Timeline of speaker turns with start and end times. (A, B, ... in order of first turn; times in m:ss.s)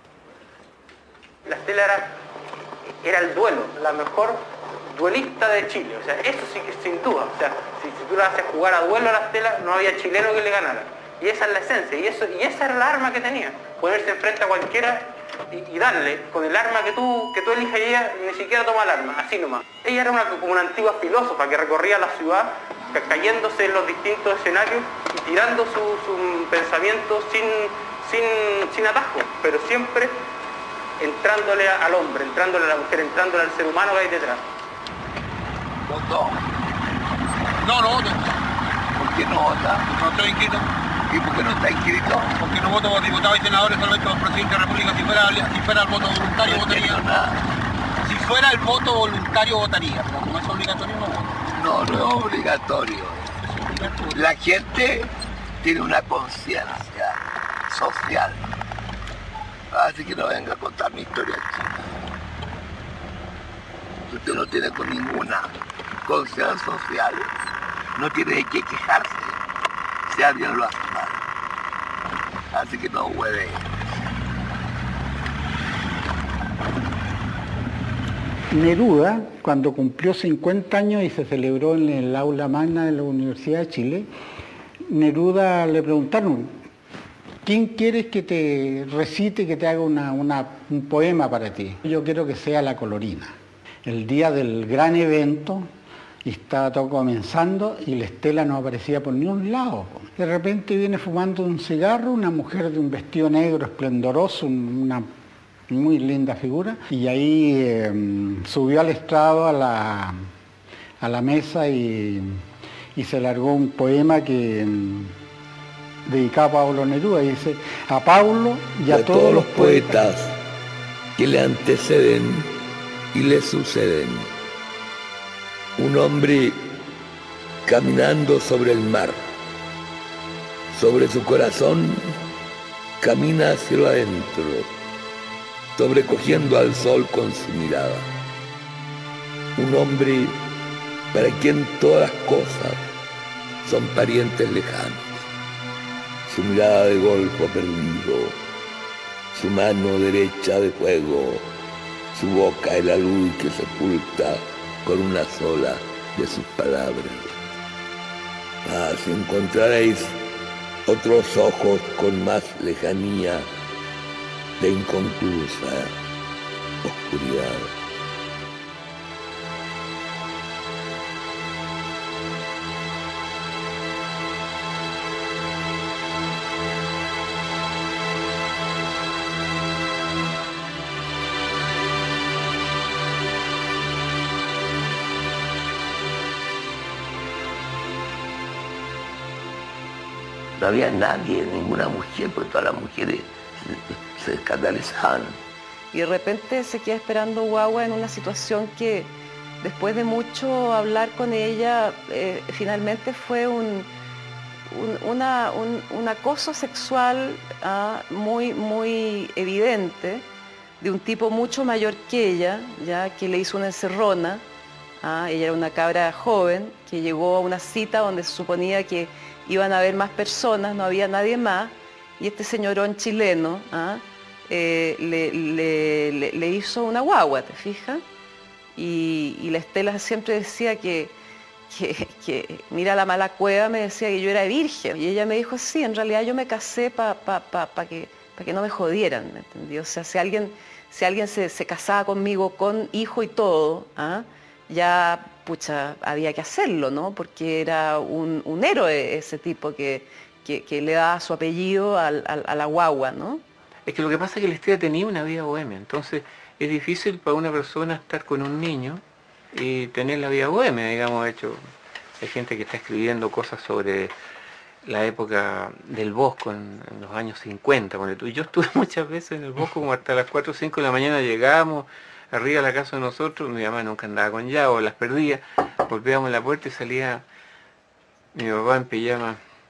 0:01.5-0:02.2 A
0:03.0-0:30.2 A
0:31.0-0:34.4 A
0:35.9-0:36.4 B
0:37.6-0:38.3 C
0:39.0-0:39.9 B
0:39.9-0:40.7 C
0:41.1-0:42.4 B
0:42.4-0:47.0 C
0:46.4-0:47.4 B
0:48.0-0:51.2 C
0:51.5-0:53.3 B
0:53.6-0:54.1 C
0:54.0-0:58.4 B
0:59.7-1:01.8 B
1:04.1-1:05.5 B
1:06.0-1:07.3 B
1:08.0-1:09.4 B
1:10.1-1:11.2 B
1:12.5-1:13.9 B
1:18.5-1:24.1 D
1:24.9-1:26.6 D
1:27.4-1:33.3 D
1:33.9-1:35.7 D
1:36.2-1:45.1 D
1:45.7-1:50.2 D
1:51.0-1:52.4 D
1:53.0-1:55.1 D
1:56.1-2:00.0 D
1:58.9-2:00.3 B
2:01.2-2:02.5 B
2:03.1-2:04.3 B
2:05.8-2:06.6 B
2:07.6-2:09.2 B
2:10.7-2:12.2 B
2:13.0-2:14.7 B
2:15.8-2:18.1 B
2:19.6-2:20.4 B
2:21.1-2:22.8 B
2:23.6-2:25.3 B
2:26.3-2:28.4 B
2:29.3-2:31.5 B
2:32.1-2:37.4 B
2:38.6-2:40.2 B
2:40.9-2:43.5 B
2:44.6-2:46.0 B
2:46.8-2:47.7 B
3:10.6-3:15.4 B
3:15.9-3:23.9 E
3:24.7-3:30.3 E
3:30.8-3:34.4 E
3:35.0-3:48.0 E
3:48.8-3:51.2 E
3:51.7-4:13.4 E
4:13.9-4:21.7 F
4:22.2-4:24.1 F
4:24.8-4:37.2 F
4:38.3-4:39.4 F